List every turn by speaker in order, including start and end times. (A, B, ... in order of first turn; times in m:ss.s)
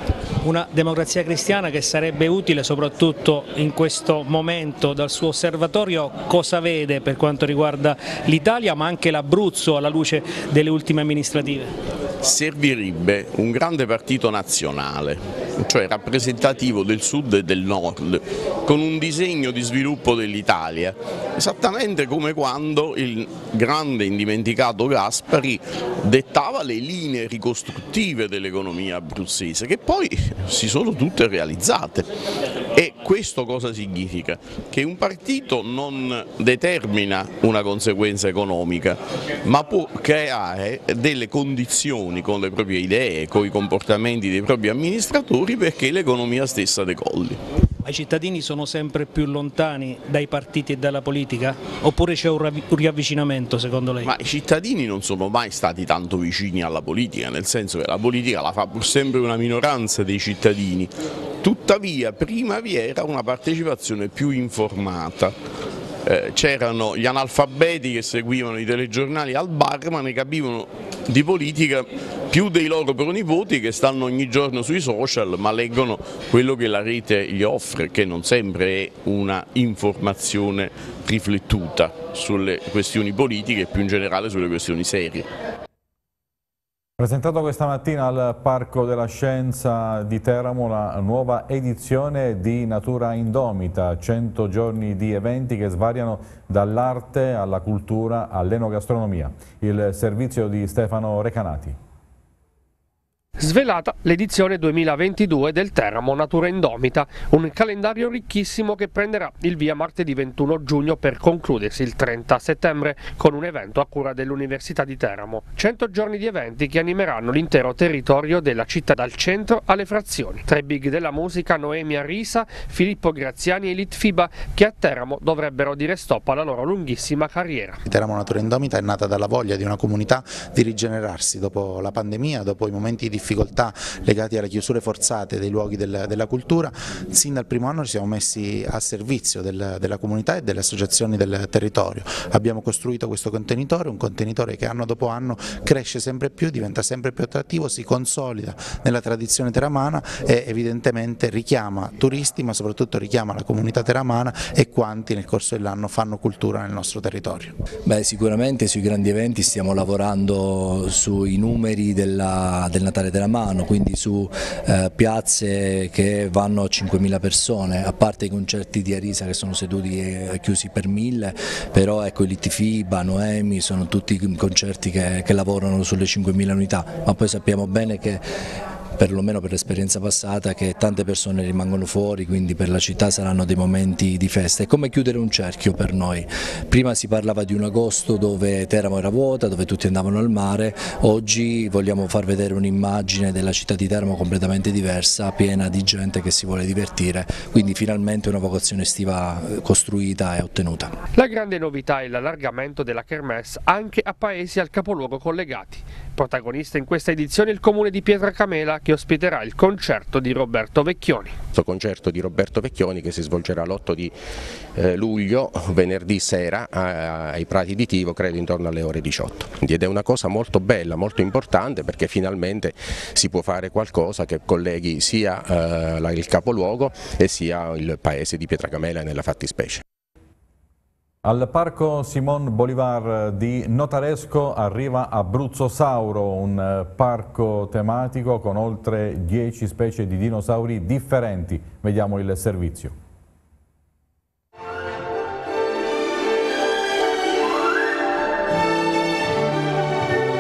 0:00.4-0:11.7 A
0:12.2-0:32.1 B
0:32.7-0:47.4 B
0:47.8-0:54.1 A
0:54.0-1:05.4 B
1:06.0-1:25.3 B
1:27.0-1:41.8 C
1:43.4-2:07.8 D
2:07.9-2:37.6 E
2:37.9-2:58.2 F
2:59.0-3:21.0 F
3:21.2-3:31.4 D
3:31.5-3:34.2 G
3:34.8-3:49.8 G
3:51.2-4:03.0 C